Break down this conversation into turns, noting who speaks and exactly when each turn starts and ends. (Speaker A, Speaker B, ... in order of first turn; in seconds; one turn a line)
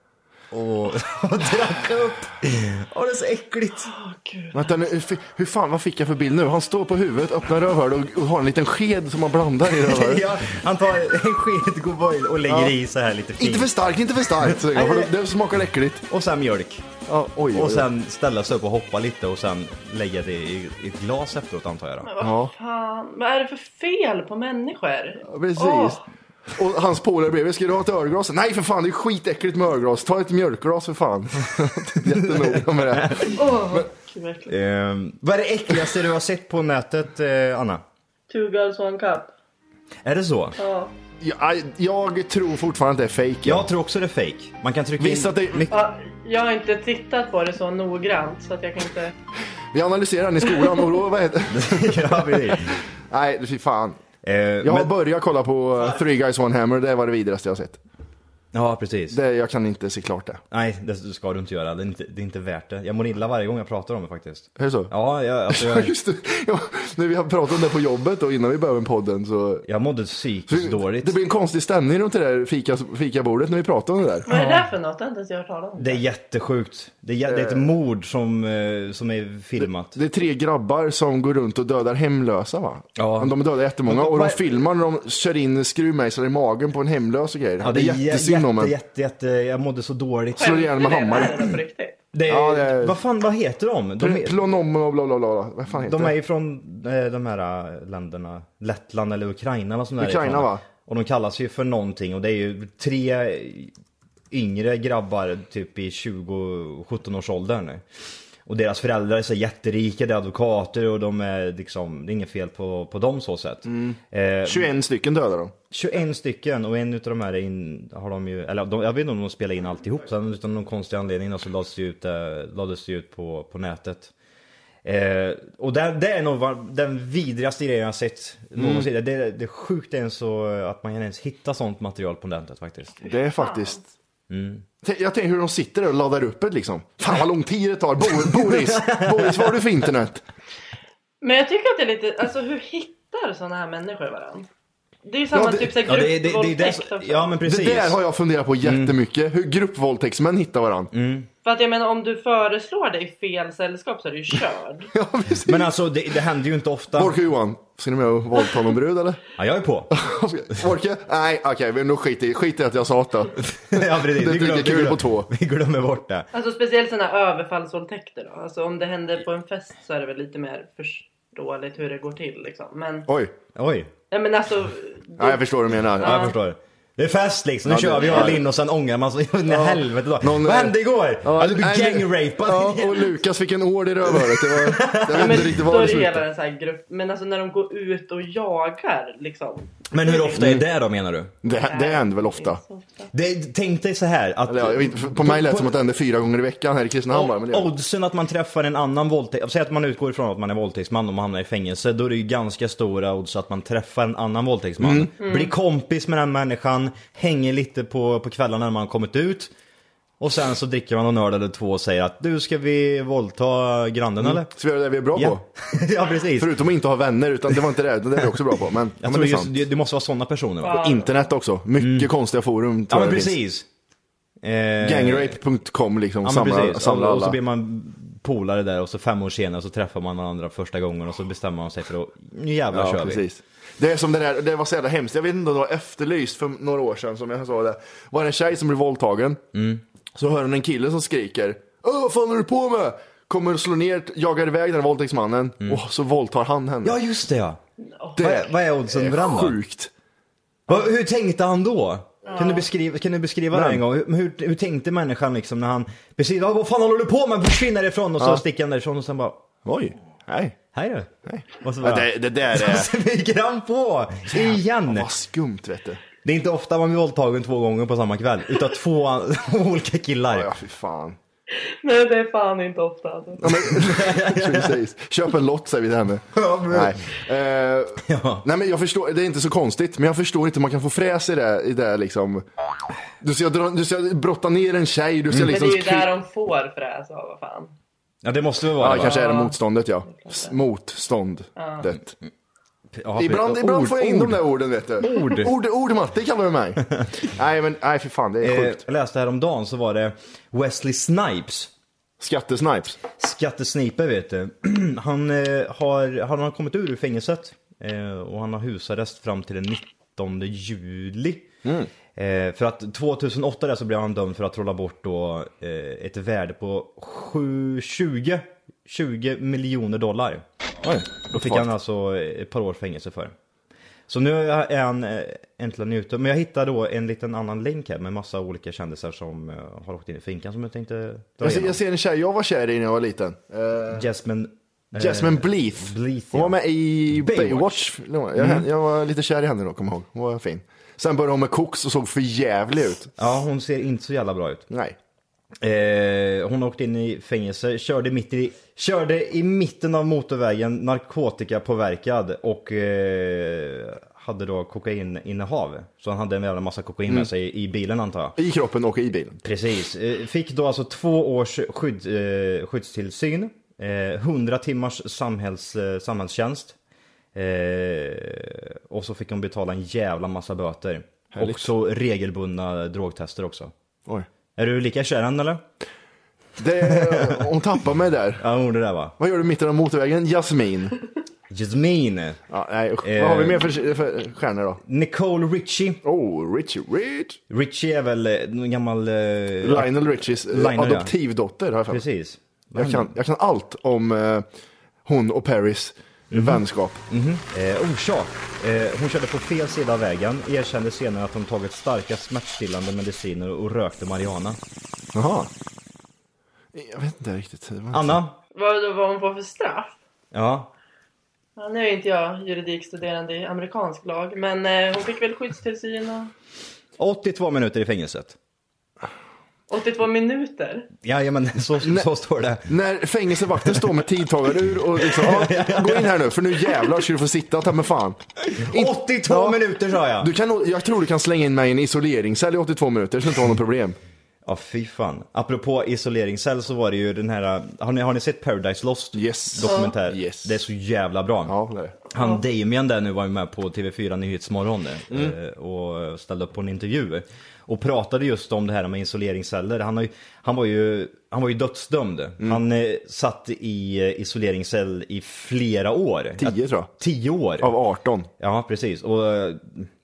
Speaker A: 0.5-3.9
Speaker B: 3.8-4.7
Speaker C: 4.5-10.3
Speaker A: 9.8-13.7
Speaker C: 12.5-12.7
Speaker C: 13.4-16.0
Speaker A: 14.4-15.1
Speaker A: 16.1-16.9
Speaker C: 17.1-17.9
Speaker A: 17.5-22.1
Speaker B: 22.0-26.0
Speaker C: 22.2-22.5
Speaker C: 25.2-26.0
Speaker C: 26.5-33.8
Speaker A: 32.0-33.4
Speaker B: 33.3-34.5
Speaker A: 34.5-37.8
Speaker B: 38.3-39.3
Speaker A: 40.0-40.6
Speaker B: 40.6-40.9
Speaker C: 41.2-43.7
Speaker A: 43.4-45.7
Speaker C: 45.0-45.7
Speaker B: 45.7-49.1
Speaker C: 49.7-54.0
Speaker A: 51.5-52.8
Speaker A: 54.2-54.9
Speaker C: 54.6-57.8
Speaker A: 58.5-59.2
Speaker C: 59.1-60.4
Speaker A: 60.5-65.9
Speaker C: 64.6-64.9
Speaker C: 65.5-69.7
Speaker A: 69.7-71.1
Speaker C: 70.5-74.3
Speaker B: 74.3-76.0
Speaker A: 74.3-74.6
Speaker A: 75.8-80.0
Speaker C: 77.2-77.7
Speaker C: 79.6-88.7
Speaker A: 83.0-84.5
Speaker A: 87.6-90.7
Speaker B: 90.3-92.0
Speaker C: 90.4-91.5
Speaker A: 92.1-94.4
Speaker C: 92.3-93.0
Speaker C: 94.0-96.1
Speaker A: 95.7-103.7
Speaker C: 100.0-100.6
Speaker A: 104.3-107.8
Speaker A: 108.5-114.7
Speaker C: 113.7-115.5
Speaker A: 115.7-124.1
Speaker A: 124.8-133.1
Speaker C: 128.6-128.9
Speaker C: 133.1-133.8
Speaker B: 133.4-133.8
Speaker A: 134.3-134.6
Speaker C: 134.8-140.2
Speaker A: 138.4-139.6
Speaker B: 141.2-144.5
Speaker B: 145.0-147.3
Speaker C: 145.3-145.7
Speaker A: 145.8-148.0
Speaker C: 147.4-150.9
Speaker A: 148.6-148.9
Speaker A: 150.9-151.3
Speaker B: 151.4-154.9
Speaker C: 154.9-155.7
Speaker A: 155.4-157.2
Speaker C: 156.9-159.2
Speaker A: 159.3-160.0
Speaker C: 159.9-165.3
Speaker A: 163.7-166.3
Speaker B: 166.3-173.1
Speaker C: 173.1-173.3
Speaker A: 173.5-173.9
Speaker B: 174.1-175.5
Speaker C: 175.2-176.3
Speaker B: 176.0-176.4
Speaker A: 176.0-183.2
Speaker C: 177.6-178.4
Speaker C: 179.5-186.2
Speaker A: 184.1-185.6
Speaker B: 185.1-190.4
Speaker A: 189.9-191.3
Speaker C: 190.3-190.7
Speaker C: 191.4-192.6
Speaker B: 191.5-193.1
Speaker A: 193.1-195.7
Speaker C: 194.5-197.7
Speaker A: 197.1-209.5
Speaker C: 204.8-205.1
Speaker B: 205.2-205.5
Speaker A: 210.2-214.5
Speaker C: 214.2-215.4
Speaker A: 215.1-216.6
Speaker C: 216.4-219.5
Speaker A: 219.0-220.8
Speaker B: 220.6-221.1
Speaker C: 220.7-223.3
Speaker A: 221.8-222.1
Speaker A: 222.9-223.7
Speaker A: 224.4-225.4
Speaker C: 224.8-227.4
Speaker A: 226.2-233.2
Speaker C: 232.7-239.4
Speaker A: 239.5-239.8
Speaker C: 240.1-247.0
Speaker A: 246.8-247.6
Speaker B: 247.8-248.4
Speaker C: 248.2-249.9
Speaker A: 248.2-249.6
Speaker A: 250.7-259.4
Speaker B: 252.2-252.7
Speaker C: 253.5-253.8
Speaker C: 259.6-260.6
Speaker A: 260.7-265.1
Speaker C: 261.2-262.9
Speaker C: 264.3-266.0
Speaker A: 266.2-270.5
Speaker C: 270.3-271.2
Speaker B: 271.5-273.5
Speaker C: 273.4-282.4
Speaker A: 273.4-274.8
Speaker A: 276.3-277.0
Speaker A: 278.0-278.4
Speaker C: 283.2-286.1
Speaker B: 285.3-287.7
Speaker A: 288.2-289.2
Speaker C: 288.8-292.1
Speaker B: 289.0-290.5
Speaker B: 291.6-291.9
Speaker A: 293.0-294.4
Speaker C: 293.2-298.8
Speaker A: 295.0-295.5
Speaker A: 298.4-301.7
Speaker C: 302.2-303.0
Speaker A: 303.2-311.5
Speaker C: 311.6-311.9
Speaker A: 312.1-323.3
Speaker C: 320.9-321.7
Speaker A: 324.1-331.8
Speaker C: 331.4-334.1
Speaker A: 333.9-337.7
Speaker C: 334.9-343.1
Speaker A: 338.4-338.7
Speaker A: 343.2-344.7
Speaker C: 344.7-344.9
Speaker A: 345.6-358.4
Speaker C: 358.4-359.4
Speaker A: 359.4-366.8
Speaker A: 367.3-373.7
Speaker C: 371.3-371.7
Speaker A: 374.6-375.6
Speaker C: 376.6-378.4
Speaker A: 376.8-377.5
Speaker A: 378.4-379.1
Speaker C: 379.2-380.9
Speaker A: 381.5-382.4
Speaker C: 382.5-384.8
Speaker A: 383.0-383.7
Speaker A: 384.9-386.0
Speaker C: 386.0-387.4
Speaker A: 387.5-391.1
Speaker C: 389.6-392.0
Speaker A: 391.9-393.1
Speaker C: 392.8-394.4
Speaker C: 395.0-397.0
Speaker A: 396.3-404.6
Speaker C: 405.1-405.5
Speaker C: 406.7-408.2
Speaker A: 407.9-408.4
Speaker B: 408.5-409.9
Speaker A: 410.3-410.7
Speaker B: 411.6-416.3
Speaker A: 417.0-418.4
Speaker B: 419.7-420.9
Speaker A: 421.0-422.7
Speaker C: 422.6-429.6
Speaker A: 423.6-424.0
Speaker A: 425.0-426.9
Speaker A: 428.5-430.3
Speaker C: 430.2-434.0
Speaker A: 434.4-441.5
Speaker C: 439.1-440.6
Speaker B: 439.6-439.9
Speaker C: 441.4-442.0
Speaker A: 442.1-457.8
Speaker C: 445.1-445.4
Speaker C: 456.4-456.9
Speaker C: 457.6-458.3
Speaker A: 458.4-459.9